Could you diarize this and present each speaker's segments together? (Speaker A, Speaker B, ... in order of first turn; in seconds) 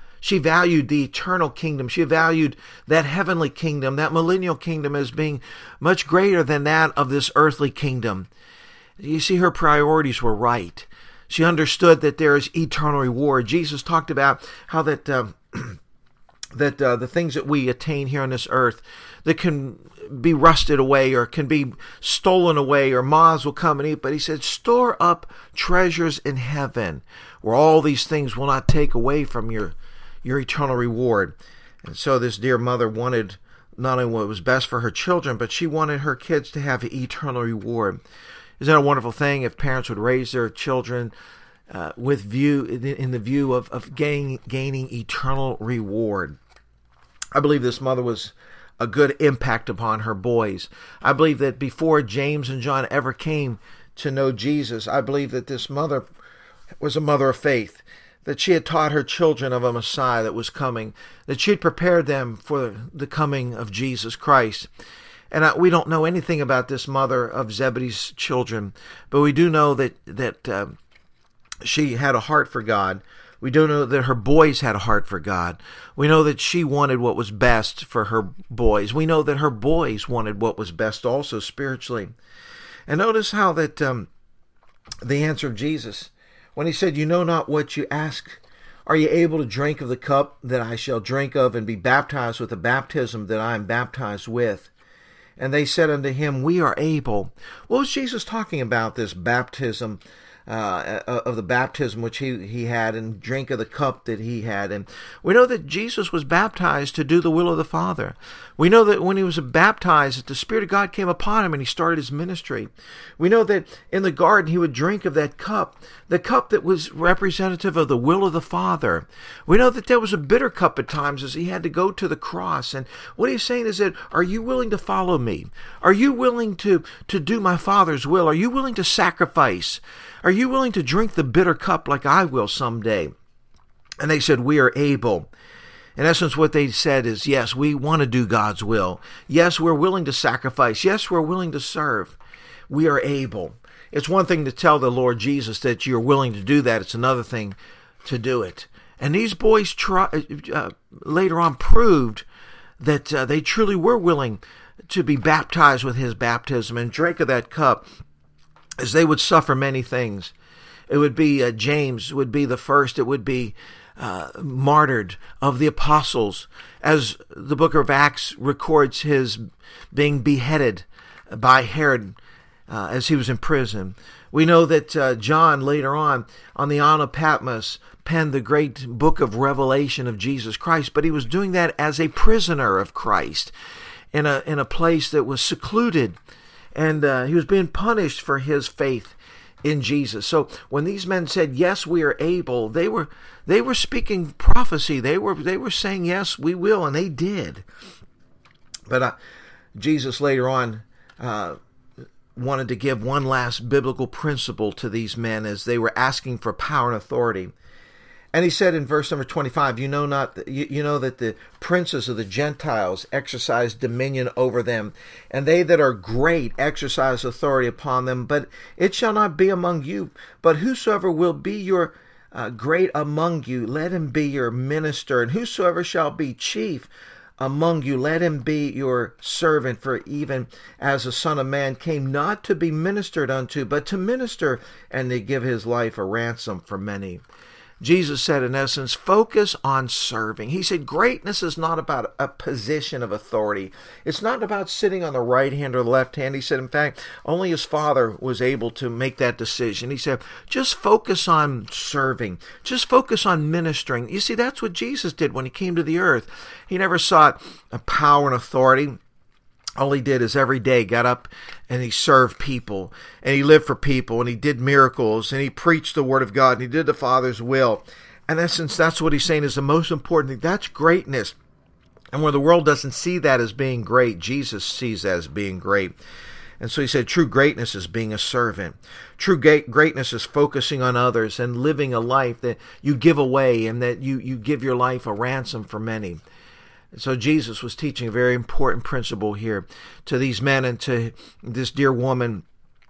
Speaker A: 0.2-8.3, 9.0-15.8, 16.5-38.0, 38.6-41.1, 41.7-46.4, 47.3-56.0, 56.8-64.7, 65.3-70.8, 71.6-82.1, 82.9-84.1, 85.0-94.7, 95.4-133.1, 134.0-135.3, 136.0-142.2, 142.7-152.2, 152.8-157.8, 158.8-160.3, 160.9-172.2, 172.7-183.5, 184.1-186.2, 186.7-197.6, 198.9-199.2, 199.8-201.6, 202.3-207.5, 208.3-237.2, 237.8-259.0, 259.8-271.4, 272.1-275.9, 276.6-286.2, 286.9-292.4